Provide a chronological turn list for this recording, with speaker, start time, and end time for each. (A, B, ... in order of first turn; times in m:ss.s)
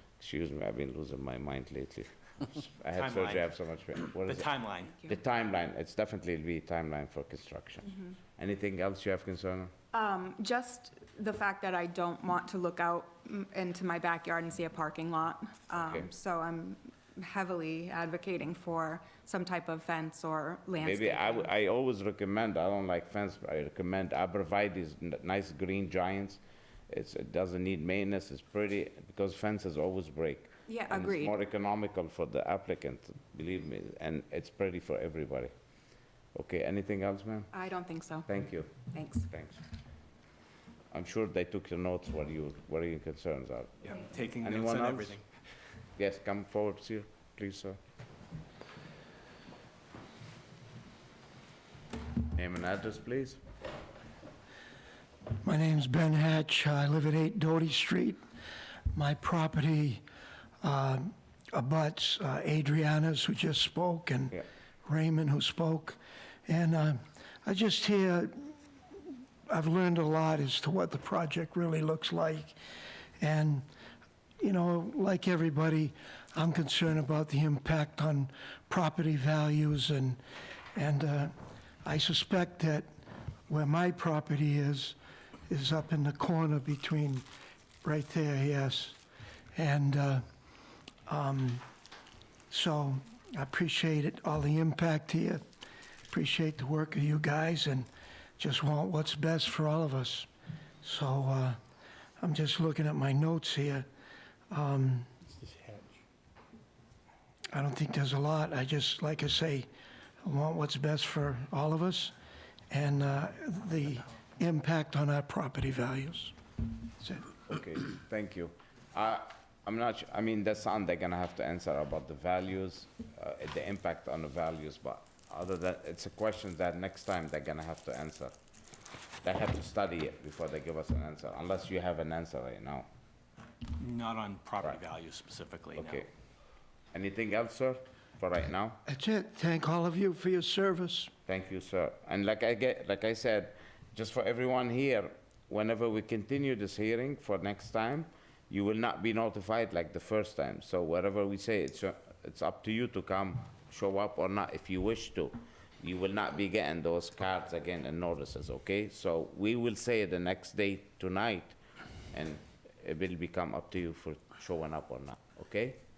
0:00.2-0:04.5 A
0:02.9-0:03.6 B
0:04.2-0:05.0 B
0:05.1-0:09.7 A
0:09.9-0:21.5 C
0:15.8-0:16.1 A
0:20.8-0:35.5 A
0:30.7-0:31.3 C
0:36.3-0:37.5 A
0:37.5-0:38.3 C
0:38.3-0:38.8 A
0:38.8-0:39.3 C
0:39.3-0:39.6 A
0:40.9-0:45.2 A
0:43.9-0:45.2 B
0:46.0-0:47.8 A
0:52.3-0:53.4 A
0:55.4-0:58.2 D
0:58.9-1:00.0 D
1:00.6-1:08.5 D
1:09.5-1:12.6 D
1:13.2-1:13.7 D
1:14.4-1:20.2 D
1:20.8-1:21.3 D
1:21.8-1:22.9 D
1:23.5-1:25.0 D
1:25.5-1:27.2 D
1:27.8-1:29.0 D
1:29.6-1:30.2 D
1:31.1-1:31.6 D
1:32.5-1:35.4 D
1:36.1-1:40.3 D
1:40.8-1:41.6 D
1:42.2-1:43.9 D
1:44.5-1:45.1 D
1:47.5-1:49.7 D
1:50.2-1:52.1 D
1:52.7-1:56.4 D
1:57.0-1:57.3 D
1:57.5-2:08.3 A
2:09.2-2:12.9 A
2:13.8-2:16.0 B
2:15.7-2:16.1 A
2:16.9-2:18.8 A
2:18.9-2:21.1 D
2:21.3-2:41.6 A
2:42.1-2:45.8 A